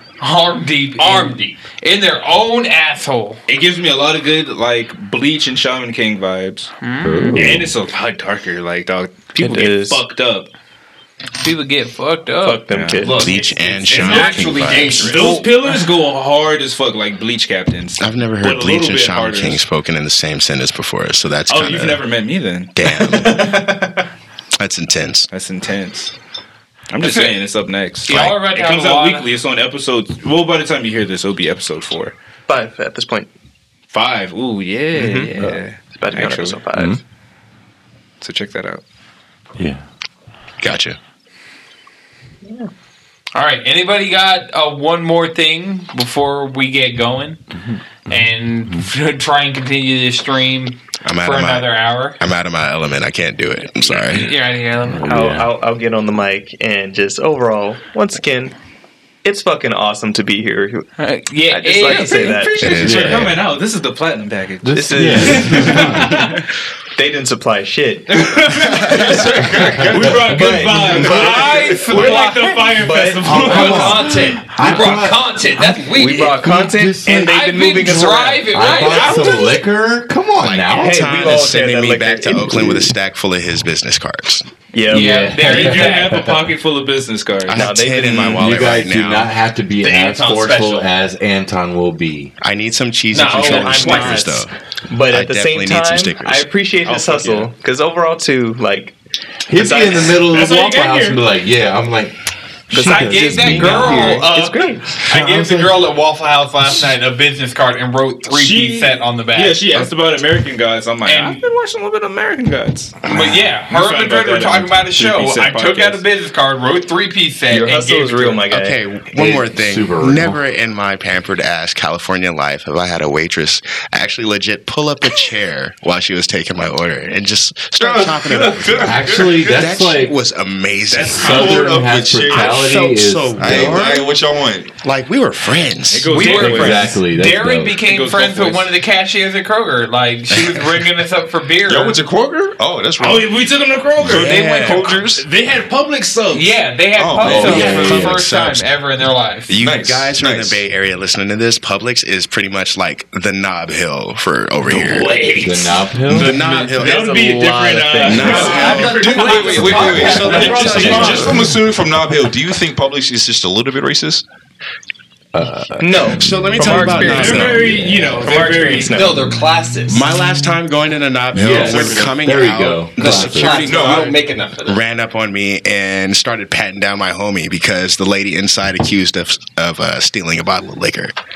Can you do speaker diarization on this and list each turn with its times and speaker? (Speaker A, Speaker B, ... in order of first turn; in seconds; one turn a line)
Speaker A: 0.2-3.4
Speaker B: 1.0-1.6
Speaker C: 3.5-6.7
Speaker A: 6.8-7.5
Speaker D: 7.0-7.7
Speaker C: 7.3-10.5
Speaker E: 9.4-10.0
Speaker A: 11.4-12.6
Speaker E: 12.4-13.5
Speaker C: 12.7-13.1
Speaker B: 13.0-15.5
Speaker F: 13.1-15.3
Speaker C: 13.9-19.6
Speaker A: 15.3-15.8
Speaker F: 18.0-22.1
Speaker C: 21.4-23.6
Speaker F: 22.7-23.5
Speaker E: 23.1-23.8
Speaker F: 24.6-25.3
Speaker C: 25.3-26.1
Speaker C: 26.9-32.1
Speaker A: 27.0-27.4
Speaker A: 28.0-29.3
Speaker F: 28.1-28.4
Speaker E: 32.5-33.3
Speaker C: 33.9-36.6
Speaker E: 34.9-35.3
Speaker E: 35.9-37.0
Speaker D: 36.7-37.0
Speaker C: 38.2-38.8
Speaker D: 39.6-39.8
Speaker F: 40.6-41.0
Speaker E: 42.4-42.7
Speaker A: 43.3-47.4
Speaker D: 47.6-48.9
Speaker A: 48.1-52.2
Speaker F: 51.0-54.3
Speaker A: 54.1-55.1
Speaker D: 54.8-55.5
Speaker E: 55.0-58.5
Speaker E: 59.2-60.9
Speaker A: 61.0-62.4
Speaker E: 61.5-63.1
Speaker C: 61.9-66.4
Speaker F: 62.6-63.2
Speaker D: 62.7-63.4
Speaker D: 64.6-66.2
Speaker E: 64.7-66.1
Speaker E: 66.9-73.9
Speaker C: 68.1-74.0
Speaker G: 69.0-69.9
Speaker D: 70.0-70.9
Speaker A: 71.0-72.8
Speaker D: 73.2-75.7
Speaker B: 73.5-76.4
Speaker A: 73.5-74.0
Speaker E: 75.9-79.4
Speaker D: 76.3-77.2
Speaker A: 77.0-79.5
Speaker D: 78.5-81.0
Speaker F: 80.4-84.5
Speaker E: 80.7-82.5
Speaker D: 82.3-82.9
Speaker E: 84.7-85.6
Speaker D: 84.9-86.4
Speaker A: 84.9-86.2
Speaker C: 84.9-87.6
Speaker F: 87.5-89.3
Speaker E: 87.5-88.5
Speaker D: 88.3-92.3
Speaker B: 89.8-90.9
Speaker F: 92.4-94.5
Speaker B: 93.1-94.4
Speaker E: 93.3-99.0
Speaker F: 95.1-96.5
Speaker C: 96.8-97.5
Speaker E: 99.5-100.5
Speaker D: 99.5-102.2
Speaker C: 100.2-101.2
Speaker D: 102.7-104.2
Speaker E: 102.7-104.9
Speaker A: 102.7-109.9
Speaker D: 105.0-105.8
Speaker C: 108.3-113.0
Speaker A: 111.0-111.4
Speaker A: 113.0-118.4
Speaker D: 113.1-113.4
Speaker C: 113.6-116.0
Speaker E: 117.5-118.8
Speaker F: 118.5-134.2
Speaker D: 119.1-120.4
Speaker G: 127.8-129.7
Speaker D: 128.8-130.1
Speaker G: 130.9-132.7
Speaker D: 131.1-133.9
Speaker G: 133.4-134.7
Speaker F: 134.8-136.2
Speaker C: 135.9-137.0
Speaker A: 136.1-142.0
Speaker D: 136.3-137.8
Speaker C: 137.8-138.7
Speaker G: 141.7-143.3
Speaker C: 143.0-146.6
Speaker F: 144.0-145.2
Speaker A: 144.1-145.0
Speaker A: 146.3-149.5
Speaker G: 146.9-147.7
Speaker D: 147.2-148.2
Speaker F: 147.3-148.7
Speaker F: 149.5-155.1
Speaker G: 149.6-150.6
Speaker C: 154.7-161.4
Speaker D: 155.3-156.4
Speaker F: 156.1-161.3
Speaker B: 158.1-161.3
Speaker A: 158.2-158.7
Speaker G: 158.3-164.2
Speaker A: 159.2-161.1
Speaker D: 160.7-161.5
Speaker D: 165.3-168.7
Speaker E: 165.8-167.7
Speaker F: 166.0-167.7
Speaker C: 167.1-169.0
Speaker E: 168.2-169.3
Speaker B: 168.9-170.0
Speaker F: 169.9-174.1
Speaker D: 171.3-173.7
Speaker G: 171.6-172.0
Speaker B: 171.6-171.9
Speaker B: 173.0-174.8
Speaker G: 173.6-174.2
Speaker F: 174.6-181.1